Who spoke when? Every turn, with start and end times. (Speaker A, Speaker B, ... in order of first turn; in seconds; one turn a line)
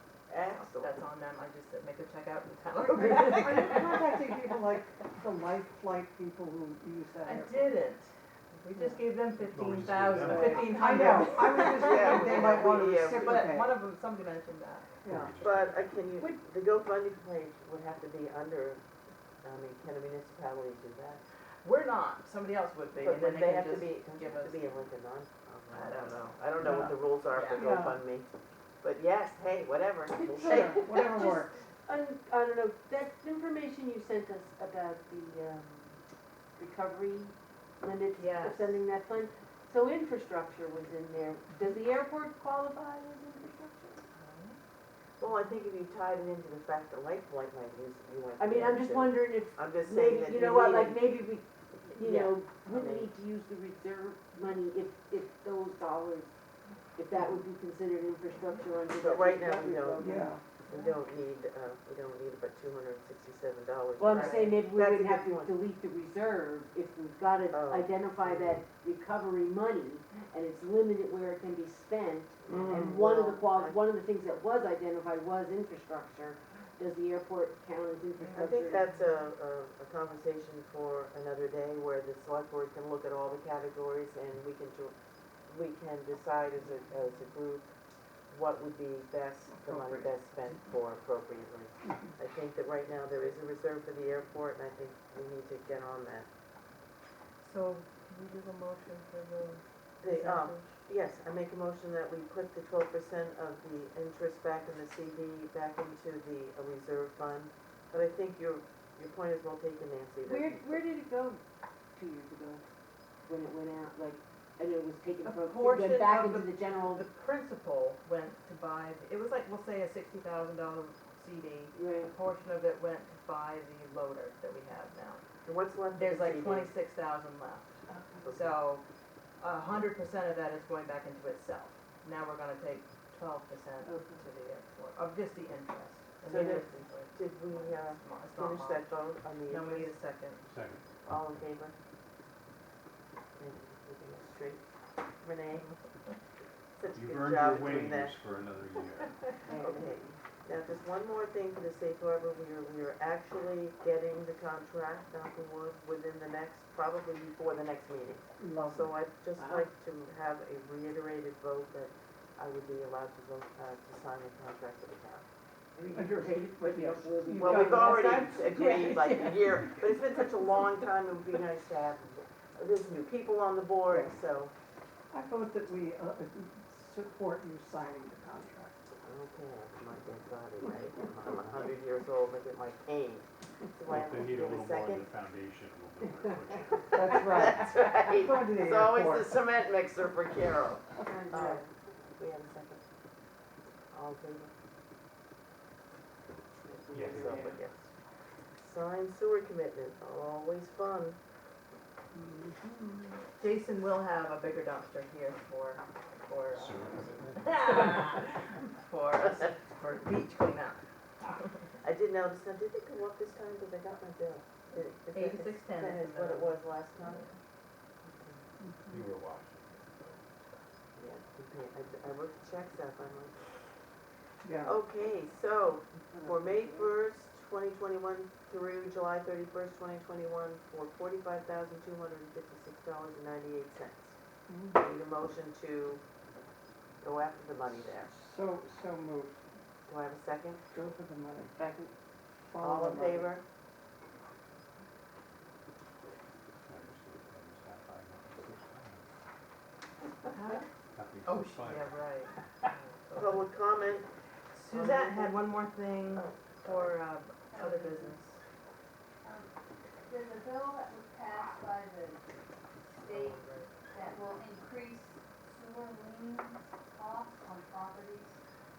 Speaker A: 0.3-1.0
Speaker B: 0.5-4.0
Speaker C: 2.9-7.8
Speaker B: 7.2-14.9
Speaker D: 9.4-10.9
Speaker C: 10.2-13.8
Speaker A: 10.8-13.5
Speaker D: 15.0-15.9
Speaker C: 15.0-15.4
Speaker A: 15.4-18.8
Speaker A: 19.4-21.2
Speaker B: 21.6-24.8
Speaker A: 23.0-28.3
Speaker B: 25.7-26.4
Speaker C: 26.6-26.9
Speaker B: 27.3-27.7
Speaker C: 27.5-28.0
Speaker A: 28.8-31.3
Speaker E: 30.2-36.0
Speaker C: 30.4-31.5
Speaker E: 36.6-44.0
Speaker B: 38.2-38.8
Speaker B: 44.1-44.6
Speaker A: 45.2-51.2
Speaker E: 48.4-56.3
Speaker A: 51.7-53.1
Speaker E: 56.9-60.4
Speaker A: 58.9-65.6
Speaker C: 60.0-60.4
Speaker E: 64.0-78.8
Speaker B: 64.1-64.6
Speaker A: 67.5-68.6
Speaker A: 72.5-73.8
Speaker C: 72.5-73.0
Speaker C: 78.2-78.5
Speaker B: 78.3-79.0
Speaker A: 78.4-84.9
Speaker A: 85.5-87.7
Speaker A: 88.3-96.3
Speaker C: 89.5-90.1
Speaker B: 97.4-100.8
Speaker A: 100.0-110.8
Speaker E: 110.2-111.4
Speaker E: 111.9-112.6
Speaker E: 113.2-117.0
Speaker B: 115.2-125.2
Speaker E: 121.7-122.1
Speaker A: 125.4-126.7
Speaker B: 125.9-128.8
Speaker A: 128.2-128.6
Speaker B: 129.4-140.4
Speaker E: 133.8-134.2
Speaker A: 136.2-139.9
Speaker D: 140.4-141.4
Speaker A: 141.1-141.7
Speaker A: 143.3-144.6
Speaker A: 145.2-145.7
Speaker A: 146.8-148.2
Speaker D: 146.9-149.4
Speaker E: 149.5-150.2
Speaker A: 149.5-165.2
Speaker C: 158.4-159.0
Speaker E: 159.3-159.7
Speaker E: 165.8-170.2
Speaker C: 165.9-168.2
Speaker A: 167.3-174.5
Speaker C: 173.9-174.2
Speaker C: 175.1-178.8
Speaker A: 179.0-185.1
Speaker D: 183.8-186.9
Speaker C: 186.9-189.3
Speaker A: 187.0-191.6
Speaker E: 191.0-191.7
Speaker A: 192.2-192.8
Speaker A: 193.9-194.5
Speaker E: 196.7-197.2
Speaker D: 196.9-197.3
Speaker A: 196.9-197.9
Speaker C: 196.9-197.6
Speaker A: 198.6-201.2
Speaker C: 202.1-203.2
Speaker B: 203.4-210.8
Speaker D: 206.5-207.9
Speaker A: 211.8-217.2
Speaker B: 215.1-217.4
Speaker A: 218.0-218.4
Speaker C: 218.6-219.0
Speaker D: 218.9-220.4
Speaker A: 220.9-223.4
Speaker C: 224.4-224.8
Speaker A: 224.6-234.1
Speaker C: 226.1-226.9
Speaker C: 234.5-234.8
Speaker A: 234.7-236.0
Speaker A: 237.0-238.1
Speaker C: 237.7-239.4
Speaker A: 239.8-240.6
Speaker C: 240.7-241.6
Speaker E: 241.5-241.9
Speaker C: 242.5-243.3
Speaker A: 242.6-243.4
Speaker D: 246.7-249.0
Speaker B: 250.3-250.6
Speaker D: 250.9-252.0
Speaker B: 251.2-253.5
Speaker A: 253.1-254.1
Speaker B: 254.5-258.4
Speaker A: 254.7-255.5
Speaker A: 256.1-257.0
Speaker F: 257.5-258.2
Speaker F: 259.2-259.5
Speaker F: 260.1-262.2
Speaker F: 262.9-268.4
Speaker A: 263.0-263.7